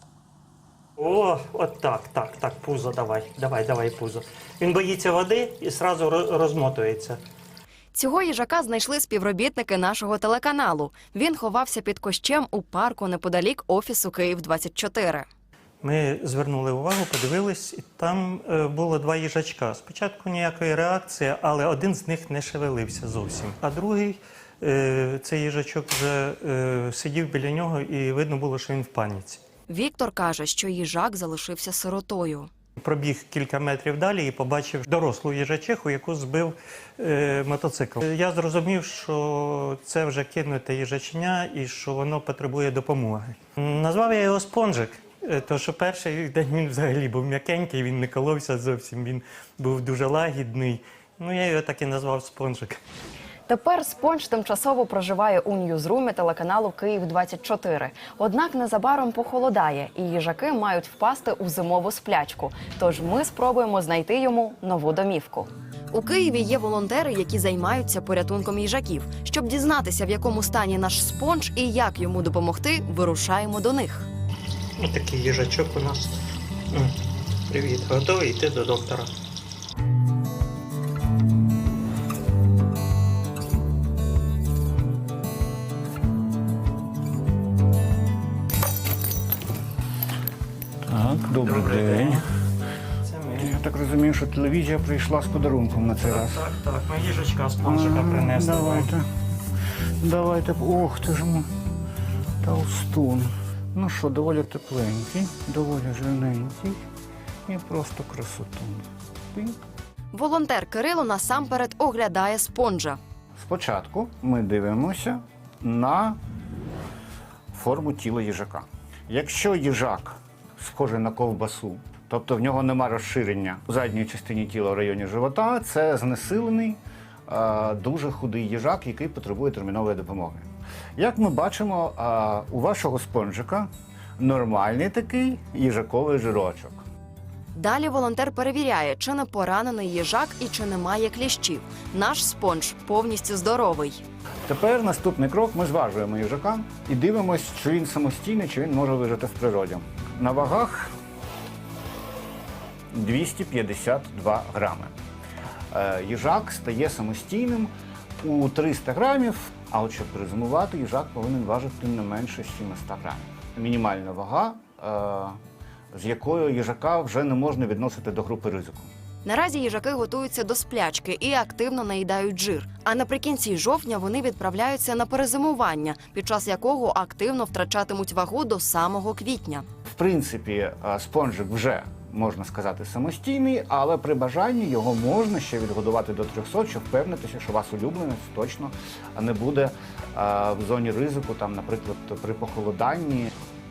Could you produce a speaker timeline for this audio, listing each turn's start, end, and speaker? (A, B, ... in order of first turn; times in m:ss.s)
0:01.0-0:07.2 A
0:07.9-0:15.3 B
0:15.8-0:29.4 A
0:29.7-0:32.5 B
0:32.8-0:52.8 A
0:53.5-1:14.1 B
1:14.8-1:16.2 A
1:16.7-1:17.0 A
1:17.5-1:19.1 A
1:30.9-1:32.2 C
1:31.4-1:32.3 A
1:33.1-1:33.5 A
1:33.4-1:36.4 C
1:36.0-1:38.9 A
1:37.6-1:39.1 C
1:40.0-1:41.5 C
1:42.4-1:46.8 C
1:47.5-1:49.6 C
1:50.1-1:53.0 B
1:53.4-1:56.2 C
1:57.5-2:13.7 C
2:14.2-2:16.8 C
2:17.6-2:24.0 B
2:24.5-2:30.9 C
2:32.9-2:34.9 C
2:35.7-2:45.4 C
2:45.9-2:48.9 C
2:49.2-2:59.7 B
2:59.9-3:13.3 C